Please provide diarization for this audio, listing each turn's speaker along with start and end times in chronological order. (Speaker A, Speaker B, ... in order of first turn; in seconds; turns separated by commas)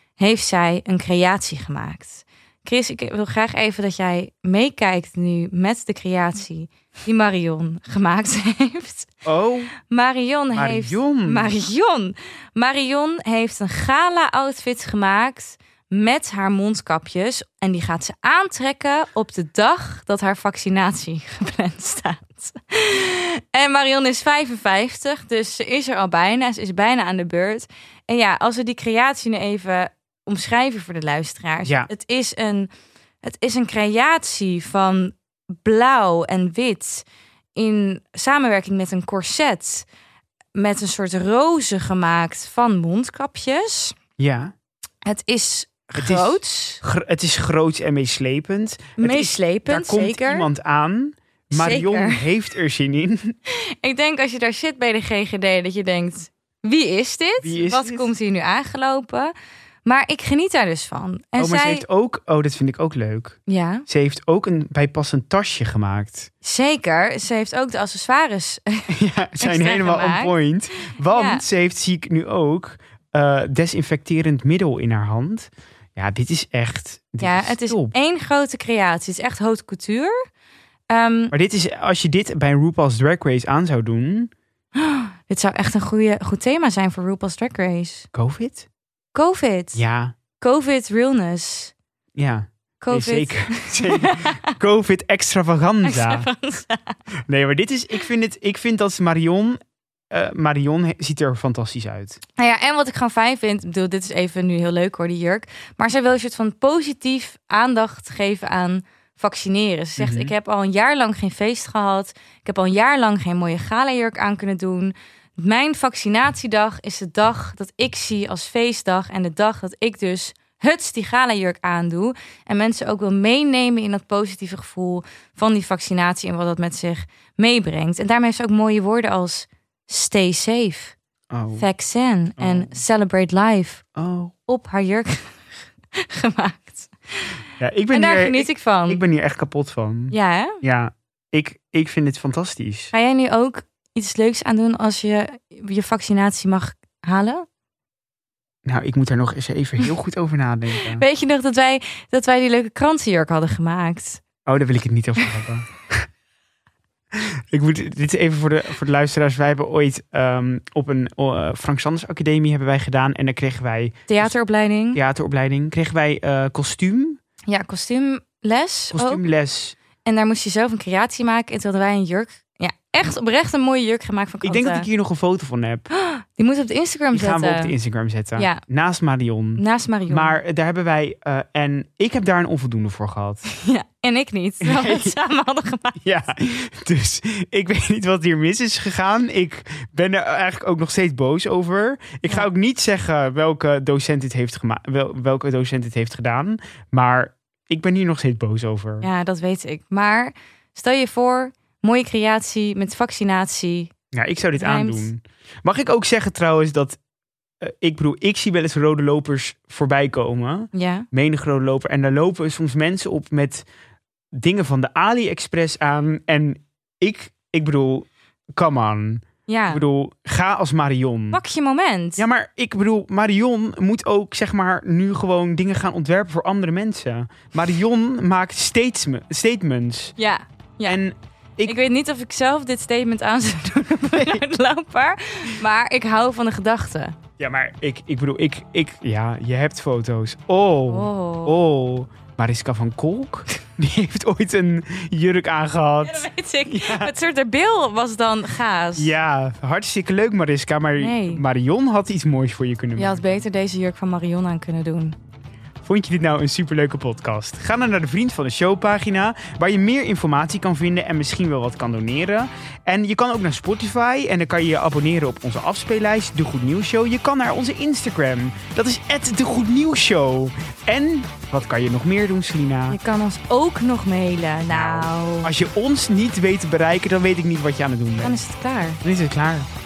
Speaker A: 0.2-9.1, Speaker B: 9.2-9.7, Speaker A: 9.9-32.7, Speaker B: 10.5-11.5, Speaker A: 33.2-39.9, Speaker A: 40.5-44.0, Speaker B: 44.2-44.5, Speaker A: 45.0-46.8, Speaker B: 45.9-53.3, Speaker A: 49.0-50.5, Speaker A: 51.5-52.2, Speaker A: 53.5-59.3, Speaker B: 57.4-58.1, Speaker A: 59.8-61.8, Speaker B: 61.4-63.4, Speaker A: 63.5-63.9, Speaker B: 63.9-66.3, Speaker A: 66.4-70.3, Speaker B: 68.9-77.9, Speaker A: 70.9-71.4, Speaker A: 77.2-80.1, Speaker A: 80.9-81.3, Speaker B: 81.3-84.3, Speaker A: 84.7-88.1, Speaker B: 88.1-88.7, Speaker A: 89.1-89.8, Speaker B: 89.7-90.1, Speaker A: 90.4-91.7, Speaker B: 92.2-96.3, Speaker A: 92.8-94.4, Speaker A: 95.8-97.0, Speaker B: 97.3-99.6, Speaker B: 100.1-102.2, Speaker A: 102.4-130.9, Speaker B: 110.0-110.3, Speaker B: 131.3-131.7, Speaker A: 131.6-133.8, Speaker B: 132.4-132.7, Speaker B: 133.9-134.3, Speaker A: 134.5-135.4, Speaker A: 135.9-137.3, Speaker B: 137.6-142.9, Speaker A: 137.9-139.0, Speaker A: 140.1-140.6, Speaker A: 142.9-147.4, Speaker B: 148.6-151.0, Speaker A: 150.8-154.2, Speaker B: 154.4-155.9, Speaker B: 157.1-164.3, Speaker A: 164.1-165.0, Speaker B: 164.9-167.2, Speaker A: 167.5-169.2, Speaker B: 168.9-169.8, Speaker A: 170.1-174.9, Speaker B: 174.4-175.9, Speaker A: 175.9-177.7, Speaker B: 177.1-183.4, Speaker A: 178.4-178.6, Speaker A: 179.6-180.4, Speaker A: 183.4-186.0, Speaker B: 184.6-185.1, Speaker B: 186.0-199.1, Speaker A: 199.0-203.9, Speaker B: 204.1-207.0, Speaker A: 204.5-205.1, Speaker B: 207.6-213.6, Speaker A: 210.7-211.1, Speaker B: 214.3-221.4, Speaker A: 219.5-219.8, Speaker A: 221.3-222.2, Speaker B: 222.2-230.1, Speaker A: 230.2-231.0, Speaker B: 230.8-231.8, Speaker A: 231.6-237.2, Speaker B: 237.4-247.1, Speaker A: 240.9-241.6, Speaker A: 246.0-249.1, Speaker B: 248.9-253.4, Speaker A: 251.0-251.4, Speaker A: 252.9-255.2, Speaker B: 255.8-273.0, Speaker A: 272.9-275.5, Speaker B: 274.7-278.4, Speaker A: 278.2-279.0, Speaker B: 279.0-279.7